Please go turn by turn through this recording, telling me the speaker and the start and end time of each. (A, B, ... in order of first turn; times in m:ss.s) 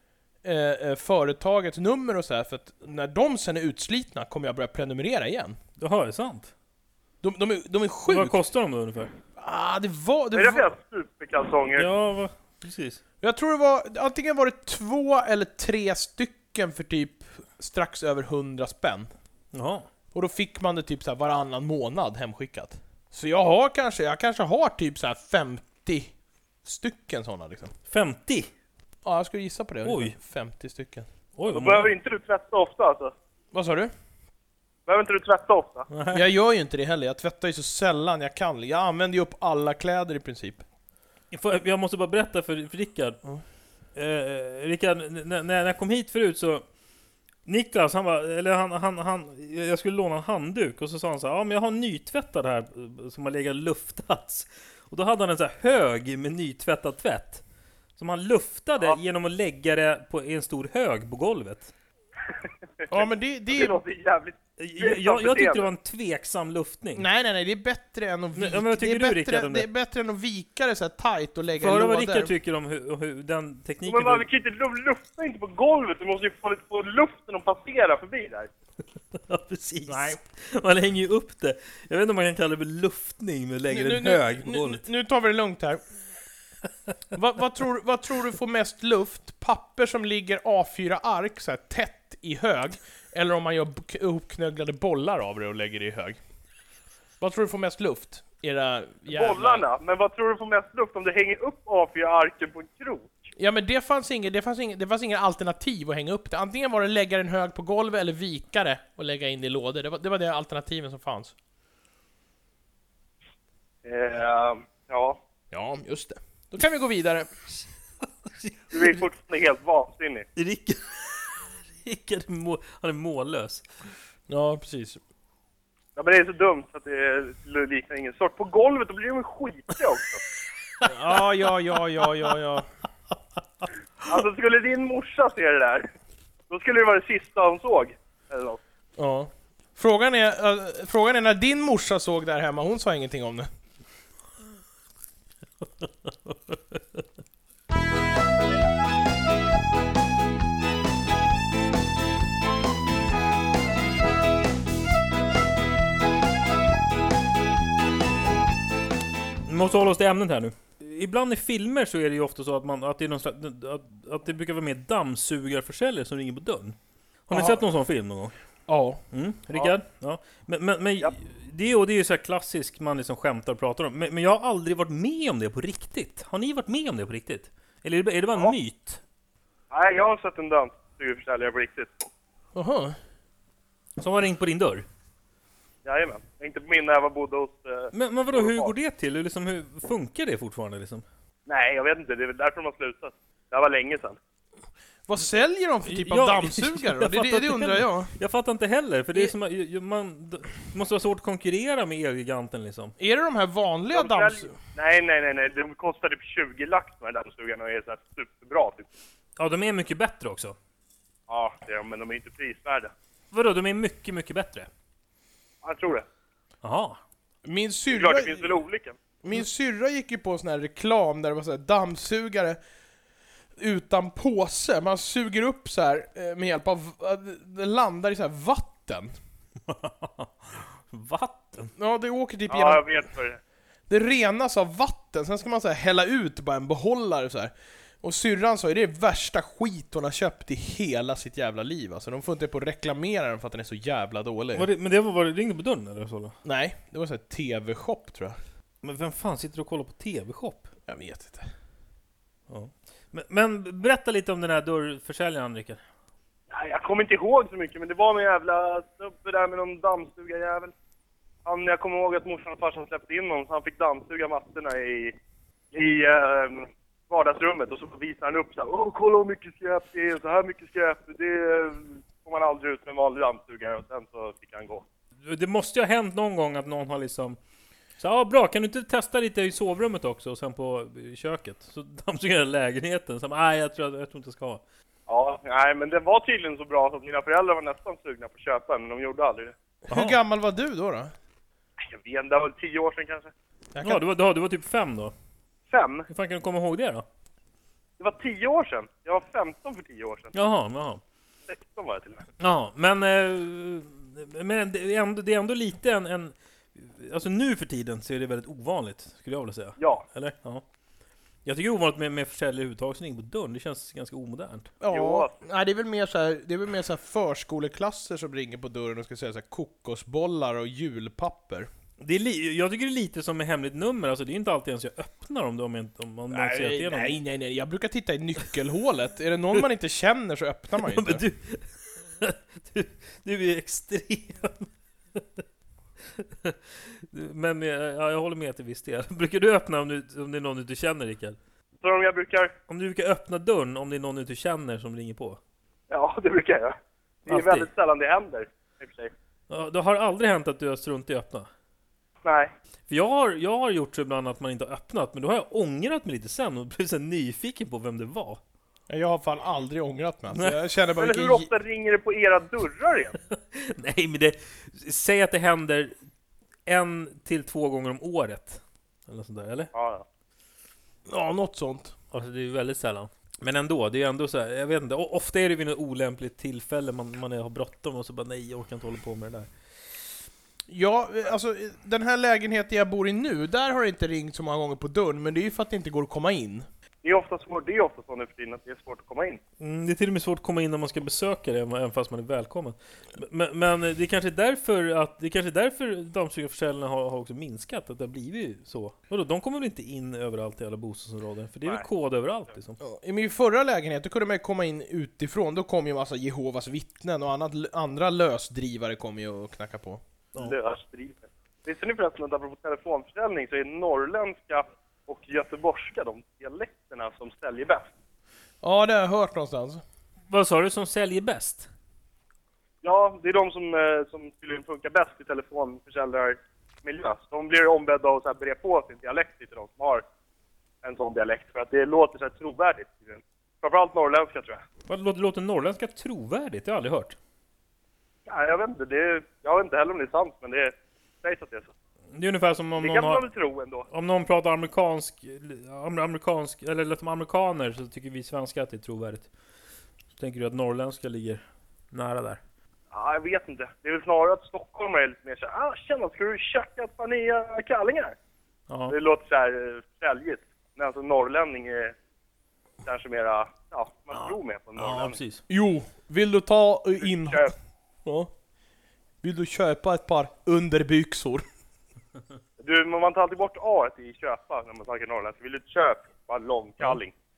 0:00.4-0:05.6 A
0:05.8-0:06.5 B
0:07.2-0:08.4 A
0:08.1-0:09.1 B
0:09.4-0:10.6 A
0:10.3-0:11.9 C
0:11.8-0:13.0 B
0:13.2-0:19.1 A
0:19.5-0:19.9 B
0:20.1-0:26.1 A
0:26.6-0:27.7 A
0:27.9-0:28.5 B
0:29.0-0:31.1 A
0:29.8-0:30.1 B
0:31.4-0:31.9 B
0:31.5-0:33.1 C
0:33.5-0:33.9 A
0:34.9-0:35.9 C
0:35.9-0:36.2 B
0:36.1-0:40.6 A
0:41.3-0:43.2 B
0:44.0-0:46.6 B
0:47.5-0:57.4 B
0:58.0-1:01.7 B
1:02.9-1:03.8 A
1:03.5-1:05.7 C
1:04.6-1:07.1 B
1:07.0-1:12.3 A
1:08.4-1:09.7 B
1:11.6-1:14.3 B
1:13.9-1:18.5 C
1:19.2-1:24.8 B
1:19.9-1:20.2 A
1:23.7-1:25.8 A
1:27.1-1:36.2 A
1:37.2-1:39.6 A
1:39.1-1:43.3 C
1:43.4-1:51.3 A
1:53.8-1:55.2 C
1:55.5-1:57.3 A
1:58.3-1:59.0 B
1:58.7-2:00.3 C
2:00.4-2:03.6 B
2:04.3-2:05.0 A
2:06.0-2:10.2 C
2:10.8-2:12.7 A
2:14.1-2:15.9 C
2:16.5-2:18.6 C
2:19.0-2:23.5 A
2:26.3-2:26.6 B
2:39.5-2:48.3 B
2:47.3-2:47.6 A
2:48.7-2:49.0 A
2:49.1-2:59.0 B
2:59.7-3:01.9 C
3:02.6-3:03.0 A
3:04.0-3:04.8 B
3:05.8-3:08.7 C
3:07.9-3:11.0 B
3:11.5-3:14.2 C
3:15.1-3:18.1 A
3:15.9-3:22.9 B
3:23.0-3:24.5 A
3:23.9-3:28.9 C
3:29.4-3:30.6 B
3:31.3-3:32.9 C
3:33.3-3:34.7 B
3:35.6-3:36.1 C
3:36.6-3:37.0 B
3:37.4-3:38.6 A
3:37.9-3:39.0 C
3:39.2-3:42.6 A
3:43.6-3:49.1 A
3:49.7-3:51.7 B
3:51.8-3:52.9 A
3:52.5-3:53.4 C
3:53.9-4:04.7 A
4:04.6-4:06.3 B
4:06.4-4:08.4 A
4:08.8-4:10.7 B
4:10.9-4:11.5 A
4:12.5-4:15.8 B
4:16.5-4:20.7 C
4:21.5-4:25.2 C
4:25.7-4:34.8 C
4:35.2-4:37.4 B
4:38.0-4:44.6 B
4:45.1-4:49.6 C
4:49.9-4:51.1 A
4:49.9-4:50.2 B
4:51.8-4:53.3 C
4:53.8-4:54.0 A
4:53.8-4:55.1 B
4:55.7-4:56.1 C
4:56.1-4:57.1 B
4:58.0-5:00.3 C
5:00.3-5:01.0 B
5:01.5-5:02.2 C
5:02.4-5:10.6 B
5:09.8-5:10.0 C
5:11.4-5:14.7 B
5:14.8-5:21.7 A
5:14.9-5:15.4 C
5:22.0-5:27.2 B
5:26.3-5:31.2 A
5:30.8-5:35.4 B
5:36.2-5:41.4 B
5:41.8-5:42.5 C
5:42.7-5:45.4 B
5:45.9-5:49.1 C
5:47.3-5:47.7 B
5:49.5-5:51.5 B
5:52.2-5:52.5 C
5:52.9-5:58.4 B
5:58.9-6:01.5 A
6:01.0-6:03.2 C
6:03.5-6:05.9 B
6:06.7-6:09.7 B
6:09.7-6:10.0 C
6:11.1-6:11.9 A
6:12.1-6:19.5 B
6:20.7-6:26.7 A
6:27.0-6:29.4 C
6:29.6-6:42.8 B
6:42.8-6:50.0 A
6:50.4-6:57.9 C
6:58.6-6:59.8 A
7:00.3-7:01.7 B
7:02.8-7:10.0 C
7:10.8-7:14.6 C
7:14.9-7:17.2 B
7:18.3-7:21.7 C
7:22.1-7:23.2 B
7:22.8-7:23.9 C
7:23.9-7:29.3 B
7:30.2-7:32.4 B
7:32.9-7:38.2 C
7:38.7-7:38.9 B
7:38.9-7:42.0 C
7:42.8-7:45.2 C
7:44.2-7:45.4 B
7:45.5-7:47.5 A
7:47.0-7:47.5 C
7:48.0-7:48.3 A
7:49.2-7:51.4 A
7:52.6-7:57.1 C